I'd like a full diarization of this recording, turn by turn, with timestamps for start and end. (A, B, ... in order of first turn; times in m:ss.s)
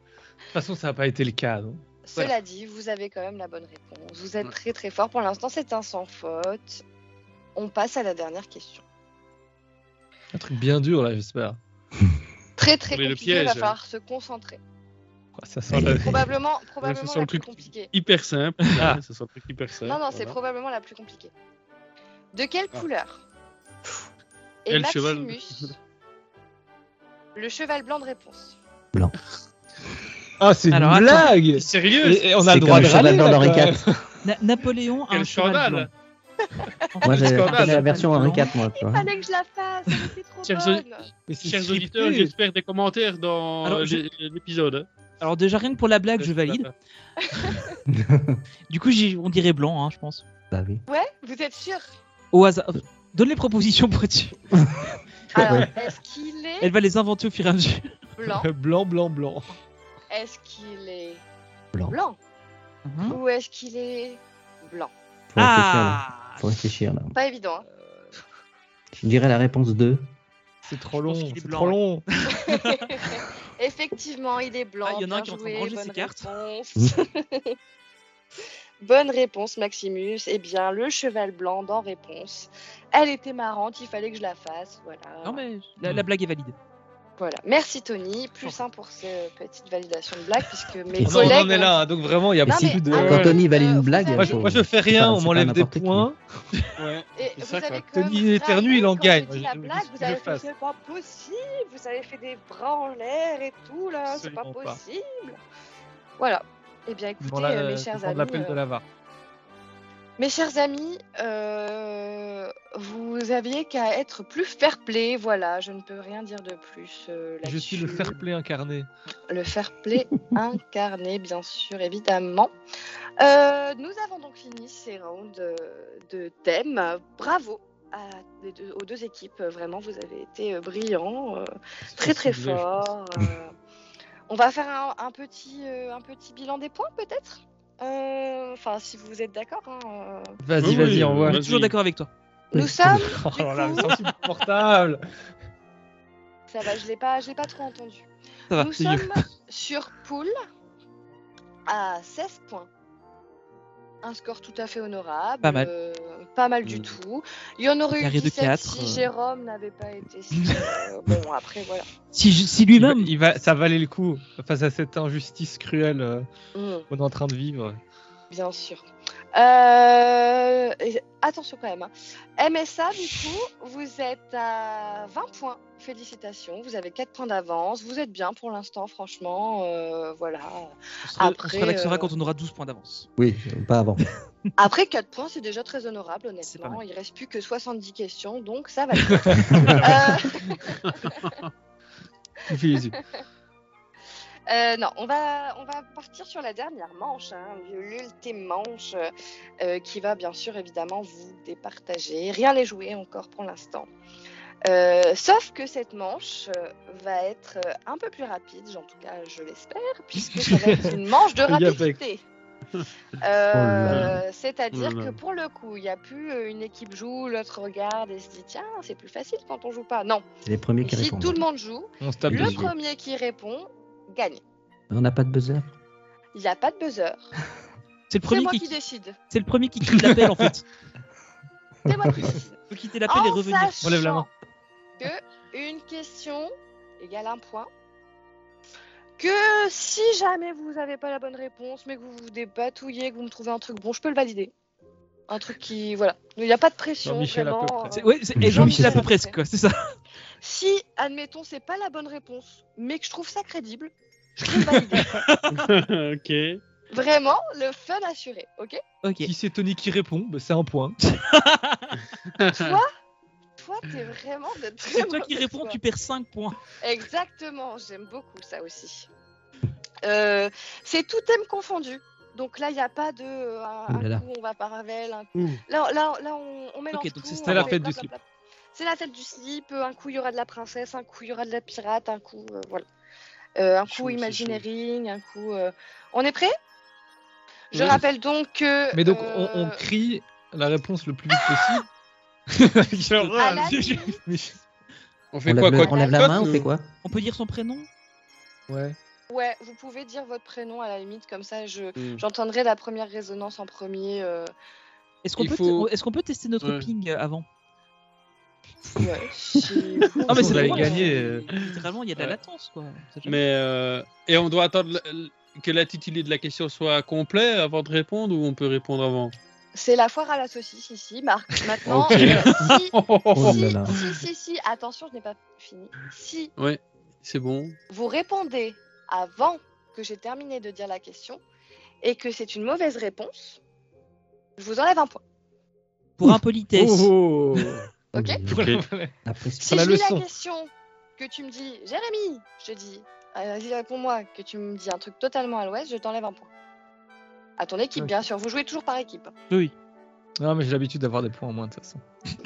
0:00.5-0:01.8 A
0:02.0-0:06.8 B
0:07.5-0:08.8 B
0:10.3-0:11.6 A
0:12.6-0:14.6 B
0:12.9-0:13.8 C
0:15.4-0:16.2 A
0:15.7-0:16.1 D
0:15.8-0:17.9 B
0:16.8-0:20.4 C
0:18.8-0:19.0 A
0:19.8-0:21.3 B
0:22.3-0:23.2 B
0:24.6-0:25.7 B
0:24.7-0:25.7 C
0:27.3-0:28.6 B
0:30.4-0:34.0 A
0:30.7-0:31.3 E
0:31.5-0:33.0 C
0:32.4-0:33.8 D
0:34.2-0:35.9 E
0:35.1-0:35.9 C
0:36.9-0:38.5 E
0:37.0-0:39.1 D
0:37.0-0:37.8 C
0:38.4-0:41.1 B
0:40.4-0:40.8 C
0:41.3-0:42.3 A
0:41.4-0:44.9 C
0:43.6-0:44.0 E
0:45.2-0:46.7 E
0:47.2-0:47.8 B
0:47.9-0:48.4 D
0:48.7-0:50.2 E
0:50.5-0:50.8 D
0:50.9-0:51.9 B
0:52.3-0:54.4 E
0:55.3-0:56.7 B
0:55.4-0:55.8 A
0:55.4-0:55.7 D
0:56.6-0:58.0 E
0:58.2-0:58.5 B
0:58.3-0:59.5 A
1:00.1-1:01.2 B
1:01.9-1:02.2 B
1:02.8-1:03.2 E
1:03.0-1:04.9 B
1:05.3-1:07.2 D
1:05.4-1:06.4 E
1:07.1-1:07.6 B
1:09.0-1:10.1 D
1:10.6-1:12.0 A
1:11.0-1:12.9 E
1:12.3-1:17.6 B
1:14.8-1:16.3 E
1:18.8-1:25.4 B
1:25.2-1:26.5 E
1:27.2-1:34.6 B
1:31.0-1:31.5 D
1:31.0-1:33.4 A
1:32.4-1:36.1 D
1:34.1-1:36.2 A
1:36.8-1:37.8 C
1:37.2-1:45.4 B
1:37.9-1:40.5 A
1:44.1-1:44.8 A
1:46.2-1:48.6 B
1:47.2-1:48.8 A
1:50.2-1:58.2 B
1:57.4-1:58.9 A
1:59.3-2:02.5 B
2:03.2-2:13.5 B
2:11.9-2:12.6 A
2:14.3-2:20.4 B
2:20.4-2:21.4 A
2:20.6-2:21.7 C
2:20.7-2:22.1 E
2:22.5-2:24.1 B
2:22.5-2:23.2 D
2:22.8-2:25.0 A
2:26.5-2:30.3 B
2:28.5-2:29.2 E
2:31.7-2:32.7 B
2:34.0-2:41.9 B
2:35.4-2:35.7 E
2:36.6-2:36.9 C
2:37.9-2:39.1 E
2:42.1-2:43.1 E
2:42.7-2:46.2 A
2:46.5-2:46.9 B
2:46.9-2:47.8 A
2:48.3-3:02.1 B
3:01.0-3:03.1 E
3:03.2-3:04.0 D
3:04.6-3:11.3 B
3:06.4-3:06.8 E
3:09.5-3:09.8 D
3:11.0-3:11.5 C
3:12.5-3:13.0 A
3:12.8-3:13.2 B
3:14.5-3:23.9 B
3:24.6-3:32.2 B
3:30.4-3:32.0 A
3:33.2-3:40.2 B
3:33.5-3:34.2 D
3:34.7-3:35.2 C
3:40.4-3:41.4 D
3:40.8-3:44.4 B
3:42.0-3:42.7 A
3:42.3-3:42.7 D
3:44.9-3:45.7 D
3:46.3-3:47.3 B
3:48.1-3:48.8 E
3:48.2-3:49.2 B
3:49.3-3:50.6 E
3:51.8-3:54.3 B
3:51.9-3:52.3 D
3:52.7-3:54.0 E
3:53.8-3:54.2 A
3:55.0-3:57.7 B
3:59.2-4:04.5 B
4:05.3-4:09.4 B
4:07.0-4:08.0 A
4:07.9-4:09.8 E
4:08.4-4:09.0 D
4:10.4-4:15.2 B
4:14.6-4:15.0 A
4:15.1-4:15.6 E
4:15.5-4:16.6 C
4:16.9-4:18.8 B
4:19.0-4:19.3 E
4:19.2-4:21.0 A
4:21.0-4:22.0 E
4:22.4-4:22.7 C
4:22.5-4:22.9 B
4:23.6-4:25.8 B
4:24.9-4:26.6 E
4:26.8-4:29.1 B
4:30.0-4:38.2 B
4:33.9-4:34.2 D
4:35.3-4:35.6 C
4:36.9-4:37.8 E
4:37.4-4:38.1 A
4:38.7-4:42.8 B
4:43.6-4:46.5 B
4:43.8-4:44.6 A
4:47.7-4:49.8 B
4:47.7-4:48.0 C
4:48.9-4:51.8 A
4:52.5-4:54.6 A
4:53.2-4:53.4 C
4:53.4-4:54.2 B
4:53.4-4:54.1 E
4:55.3-4:56.6 C
4:55.4-4:56.9 D
4:55.8-4:56.6 B
4:57.0-4:57.9 E
4:58.7-4:59.0 A
4:59.3-5:04.5 B
5:02.0-5:02.2 C
5:05.2-5:07.4 E
5:05.4-5:05.9 C
5:06.6-5:06.9 C
5:08.9-5:11.2 B
5:10.3-5:13.4 E
5:10.3-5:11.4 A
5:11.6-5:12.4 C
5:13.2-5:19.3 C
5:19.7-5:26.5 B
5:21.8-5:22.3 D
5:22.1-5:22.5 A
5:22.1-5:23.7 C
5:23.3-5:24.0 D
5:26.6-5:27.8 C
5:27.9-5:31.4 B
5:32.0-5:33.6 B
5:34.6-5:35.2 B
5:36.2-5:37.1 E
5:36.2-5:37.8 A
5:38.1-5:38.4 B
5:38.1-5:38.7 D
5:38.5-5:38.8 C
5:38.5-5:39.1 A
5:39.2-5:39.9 D
5:39.6-5:46.5 B
5:39.7-5:40.2 A
5:47.6-5:49.3 B
5:50.4-5:52.0 A